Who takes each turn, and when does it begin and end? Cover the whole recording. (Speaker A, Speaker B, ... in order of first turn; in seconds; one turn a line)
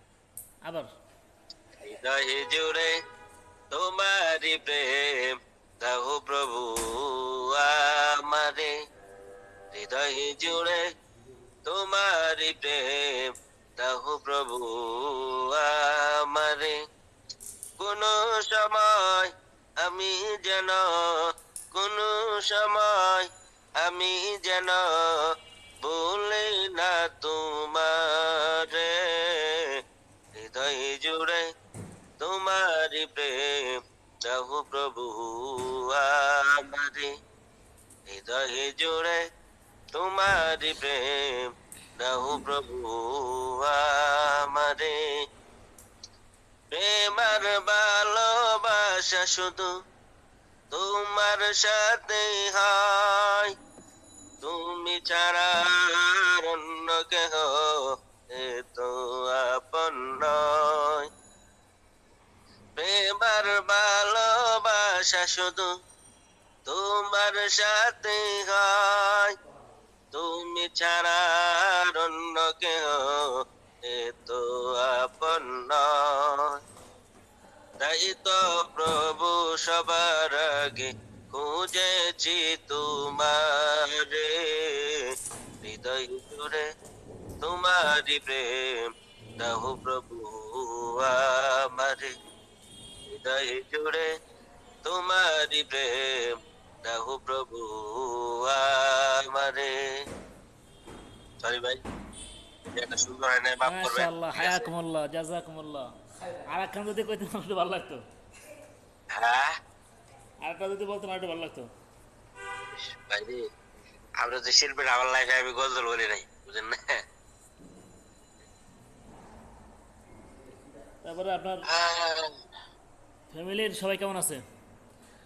Speaker A: 0.6-0.9
Speaker B: 1.8-2.9
Speaker B: 3.7-8.7
Speaker B: 9.7-10.8
Speaker B: 11.7-16.8
Speaker B: 17.8-23.3
Speaker B: 23.8-25.3
Speaker B: 25.8-29.8
Speaker B: 30.4-31.4
Speaker B: 32.2-37.1
Speaker B: 38.1-39.2
Speaker B: 39.9-45.0
Speaker B: 46.7-49.7
Speaker B: 50.7-53.5
Speaker B: 54.4-61.1
Speaker B: 62.8-65.7
Speaker B: 66.7-69.3
Speaker B: 70.1-76.6
Speaker B: 77.8-85.0
Speaker B: 85.6-86.7
Speaker B: 87.4-92.1
Speaker B: 93.1-94.1
Speaker B: 94.8-96.3
Speaker B: 96.8-99.8
Speaker B: 101.4-101.8
Speaker B: 102.7-104.7
Speaker A: 103.7-105.9
Speaker A: 106.5-108.0
Speaker B: 109.2-109.5
Speaker A: 110.5-111.7
Speaker B: 112.9-113.4
Speaker B: 114.2-117.0
Speaker A: 121.0-121.7
Speaker B: 121.7-122.3
Speaker A: 123.3-124.4